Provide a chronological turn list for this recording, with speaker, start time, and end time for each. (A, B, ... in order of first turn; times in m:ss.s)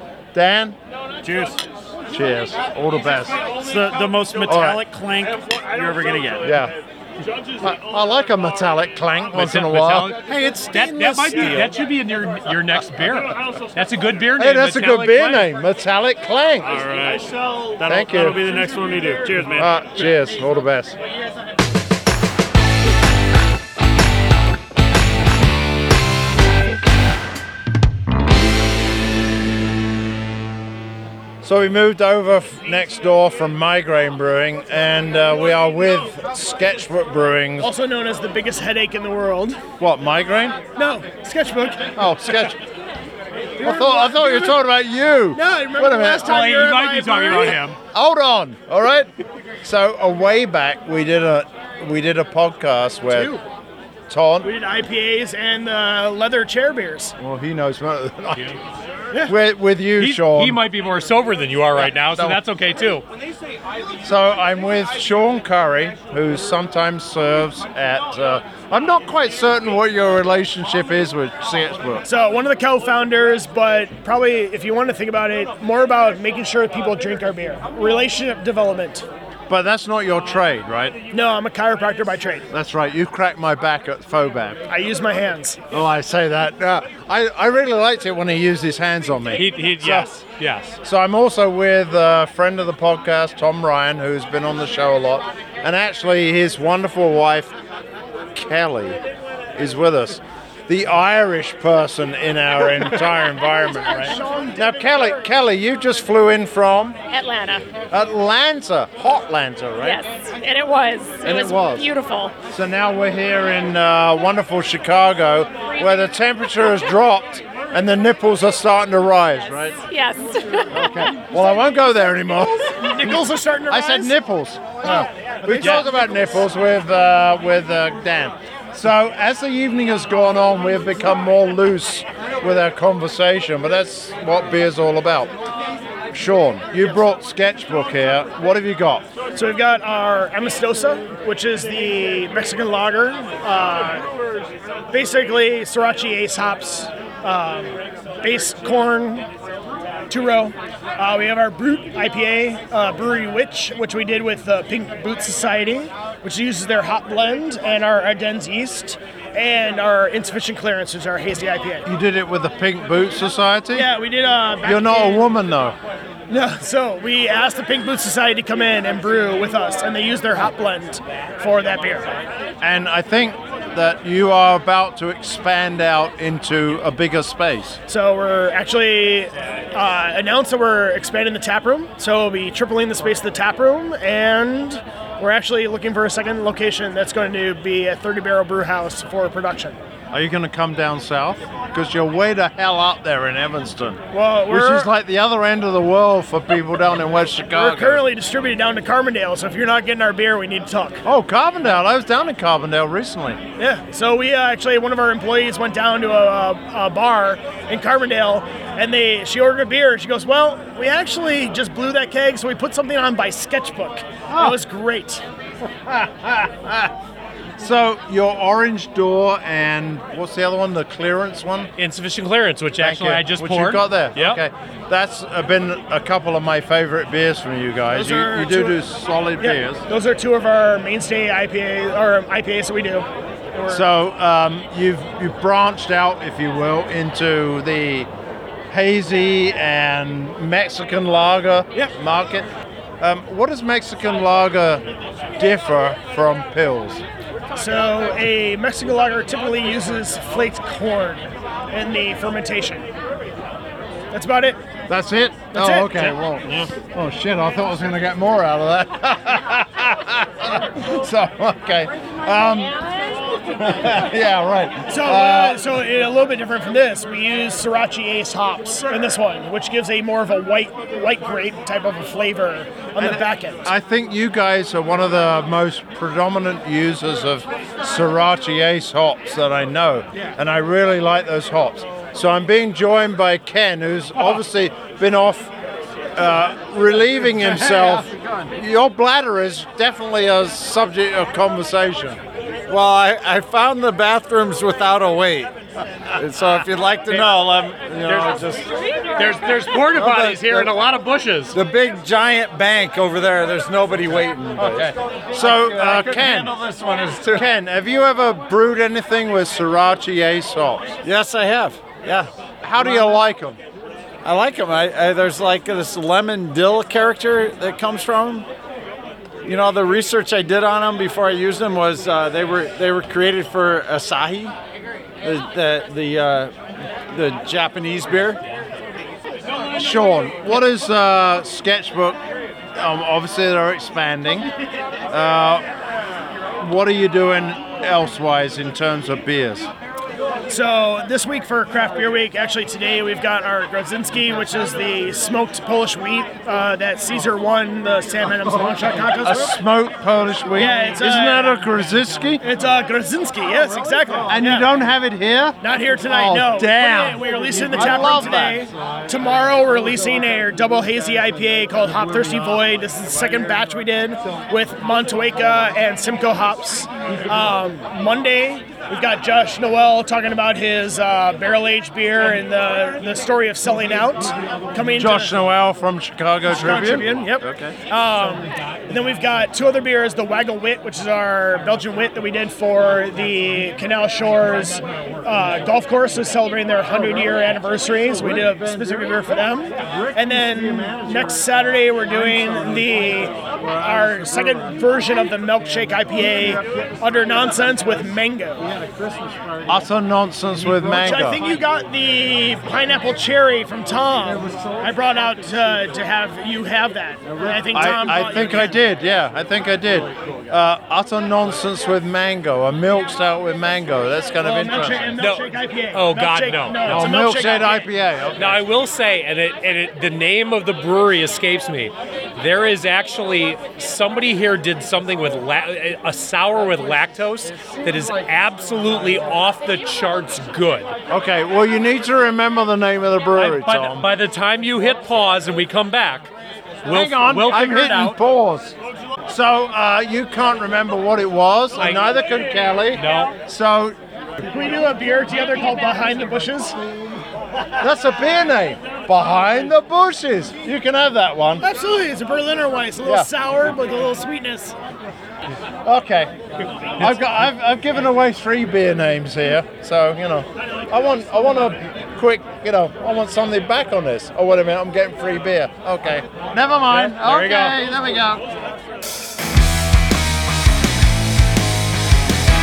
0:00.3-0:00.8 A
0:01.2-0:01.6 B
0:02.1-0:03.4 A
0:03.4-0:06.6 B
0:04.5-0:04.8 A
0:06.4-0:06.7 A
0:07.6-0:10.2 A
0:09.3-0:10.2 C
0:10.2-0:11.7 B
0:10.7-0:15.5 C
0:14.4-0:16.8 A
0:16.6-0:19.7 B
0:17.8-0:18.4 A
0:19.5-0:21.0 A
0:31.4-0:37.7 A
0:37.6-0:39.6 D
0:39.8-0:40.6 A
0:40.8-0:42.4 D
0:42.0-0:42.6 A
0:43.6-0:44.6 D
0:43.6-0:46.3 A
0:45.3-0:47.7 D
0:46.2-0:47.8 C
0:47.9-0:49.1 A
0:49.6-0:53.4 A
0:53.1-0:53.4 D
0:54.1-0:54.5 A
0:54.4-0:57.1 D
0:57.2-0:58.6 A
0:59.2-1:00.6 A
1:00.0-1:03.0 C
1:01.8-1:02.4 A
1:04.0-1:12.0 A
1:12.0-1:19.1 D
1:19.5-1:21.0 A
1:21.1-1:22.5 D
1:22.5-1:24.6 A
1:24.7-1:25.6 D
1:25.7-1:30.1 A
1:29.4-1:30.8 C
1:30.8-1:37.6 A
1:38.3-1:39.0 A
1:39.6-1:47.0 A
1:47.1-1:47.6 E
1:47.9-1:50.0 A
1:49.8-1:52.4 E
1:51.2-1:51.9 A
1:52.5-1:59.8 A
1:59.9-2:01.1 E
2:00.7-2:15.3 A
2:02.8-2:04.1 D
2:04.8-2:06.2 D
2:16.1-2:19.1 A
2:19.4-2:24.1 D
2:24.9-2:29.3 D
2:30.1-2:41.9 D
2:41.8-2:43.9 A
2:43.7-2:45.3 D
2:44.6-2:45.8 A
2:46.3-2:52.1 D
2:52.6-2:57.8 A
2:57.9-3:09.8 D
3:10.1-3:18.0 A
3:14.1-3:14.9 D
3:17.5-3:21.0 D
3:21.0-3:23.4 A
3:23.6-3:35.2 D
3:34.3-3:34.6 A
3:35.8-3:36.9 A
3:37.6-3:41.7 A
3:41.8-3:44.4 C
3:42.8-3:49.8 A
3:47.9-3:48.8 D
3:49.4-3:53.8 D
3:53.7-3:58.1 A
3:58.7-4:02.5 A
4:03.0-4:04.8 A
4:05.4-4:07.0 A
4:07.6-4:12.9 D
4:14.1-4:14.6 D
4:14.9-4:22.8 A
4:15.5-4:16.2 D
4:23.5-4:25.6 A
4:24.9-4:33.7 D
4:33.0-4:45.5 A
4:46.1-4:52.2 A
4:47.8-4:48.3 F
4:52.7-4:55.5 F
4:56.2-4:58.7 F
4:58.0-4:58.6 C
4:59.1-5:01.6 C
4:59.8-5:00.8 F
5:01.5-5:07.4 F
5:04.6-5:06.6 A
5:07.3-5:11.0 A
5:11.0-5:13.1 F
5:12.6-5:13.6 A
5:14.2-5:18.5 F
5:19.4-5:24.6 F
5:25.2-5:26.5 F
5:27.1-5:28.4 F
5:29.7-5:32.2 A
5:32.7-5:34.5 A
5:35.1-5:35.6 A
5:36.6-5:39.7 A
5:40.5-5:49.6 D
5:49.2-5:52.4 A
5:50.6-5:51.6 D
5:52.4-5:54.7 D
5:54.3-5:58.7 A
5:55.6-6:15.3 D
6:15.0-6:17.1 A
6:16.5-6:38.7 D
6:17.4-6:17.7 F
6:39.6-6:41.4 A
6:40.7-6:48.8 D
6:47.7-6:55.2 A
6:54.4-6:57.9 D
6:55.2-6:57.2 C
6:56.9-6:58.6 A
6:58.4-7:10.9 C
7:11.1-7:14.1 A
7:13.4-7:16.3 C
7:16.8-7:18.2 C
7:16.9-7:24.0 A
7:21.8-7:22.0 C
7:22.9-7:23.3 C
7:24.4-7:26.8 D
7:27.8-7:31.6 A
7:31.6-7:34.8 D
7:33.0-7:33.3 A
7:35.8-7:36.3 A
7:37.0-7:48.5 A
7:46.9-7:47.8 C